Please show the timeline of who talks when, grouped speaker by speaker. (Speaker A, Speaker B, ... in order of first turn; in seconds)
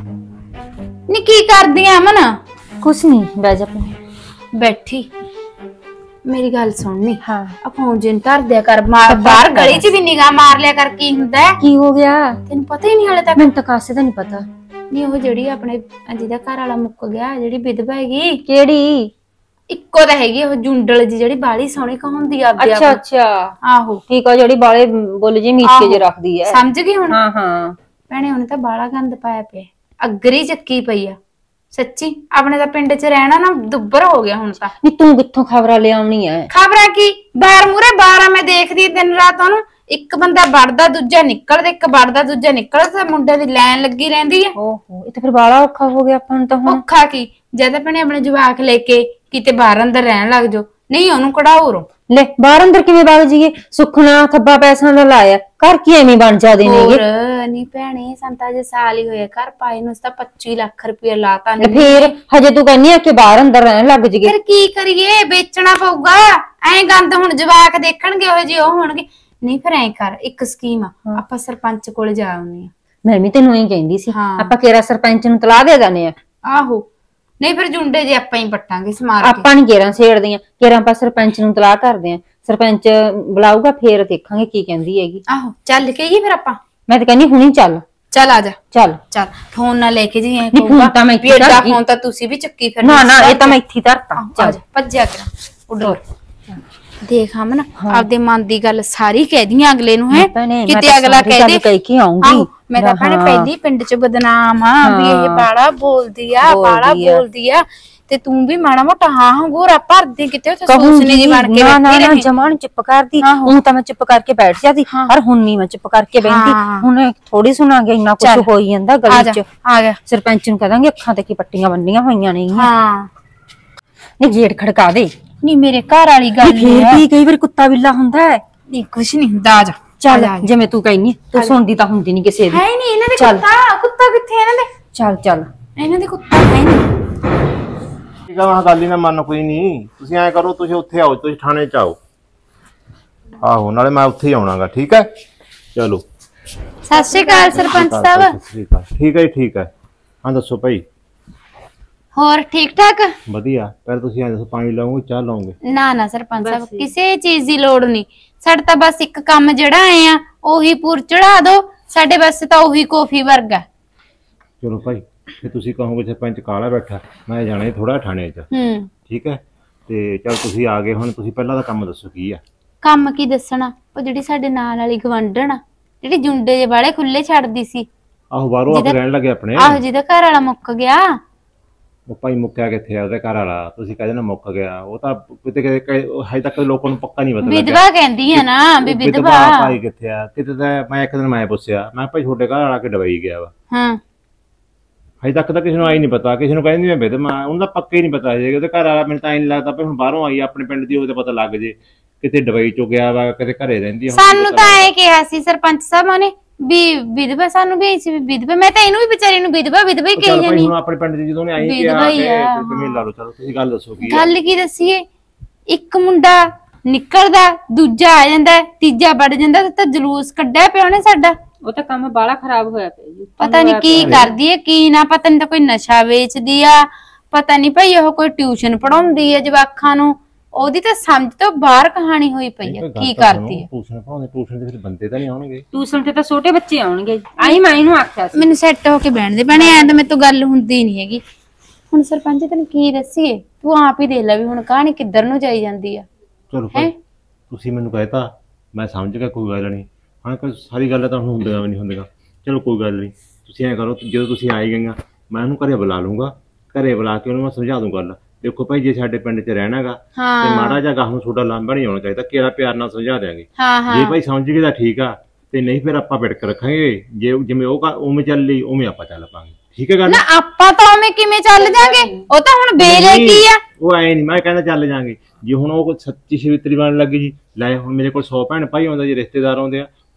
Speaker A: 1.1-2.4, 4.5-5.1, 6.2-11.6, 12.5-13.5, 14.9-18.4, 19.7-23.0, 23.7-24.0, 25.6-27.2, 28.1-31.2, 31.7-34.7, 36.5-44.5, 46.7-51.9, 56.6-62.1, 64.2-72.7, 74.1-74.5, 76.5-76.9, 77.4-79.5, 85.3-86.6, 88.1-88.6, 89.1-93.6, 94.2-96.0, 97.0-101.6, 102.2-112.3, 113.2-113.6, 116.2-116.9, 118.2-118.5, 119.1-120.0, 122.5-123.1, 125.4-127.0, 128.7-130.5, 132.5-134.7, 135.8-136.9, 146.9-148.3, 152.1-153.2, 155.7-163.6, 168.5-168.9, 172.8-177.9, 179.6-181.2, 187.4-189.7, 193.7-194.0, 204.1-210.7, 211.6-213.0, 214.0-215.0, 215.7-221.4, 223.4-233.7, 238.3-241.2, 241.9-246.1, 260.2-260.8, 263.6-264.1, 270.1-273.6
Speaker B: 2.8-4.0, 7.2-7.6, 9.0-9.9, 11.6-12.4, 13.4-14.5, 18.5-19.1, 22.6-23.6, 24.1-27.8, 34.8-36.5, 44.5-46.8, 52.1-57.0, 61.6-64.3, 73.0-76.2, 79.2-85.2, 86.9-87.8, 88.7-89.0, 90.5-91.8, 92.8-94.6, 95.8-96.6, 97.8-98.1, 100.1-103.5, 104.8-105.5, 106.4-107.2, 110.7-119.5, 120.1-122.7, 124.2-125.1, 126.4-128.4, 130.0-132.6, 133.2-133.4, 134.9-135.5, 156.4-156.9, 221.6-224.3, 235.7-238.5, 271.6-272.3
Speaker C: 138.3-142.0, 143.4-145.1, 145.7-146.0, 147.3-149.7, 150.2-150.8, 153.3-155.6, 164.6-168.5, 169.1-172.4, 178.3-179.8, 182.1-193.5, 195.2-204.9, 210.1-214.3, 224.0-224.3, 232.6-235.7, 246.5-246.9, 247.5-270.2, 272.8-279.9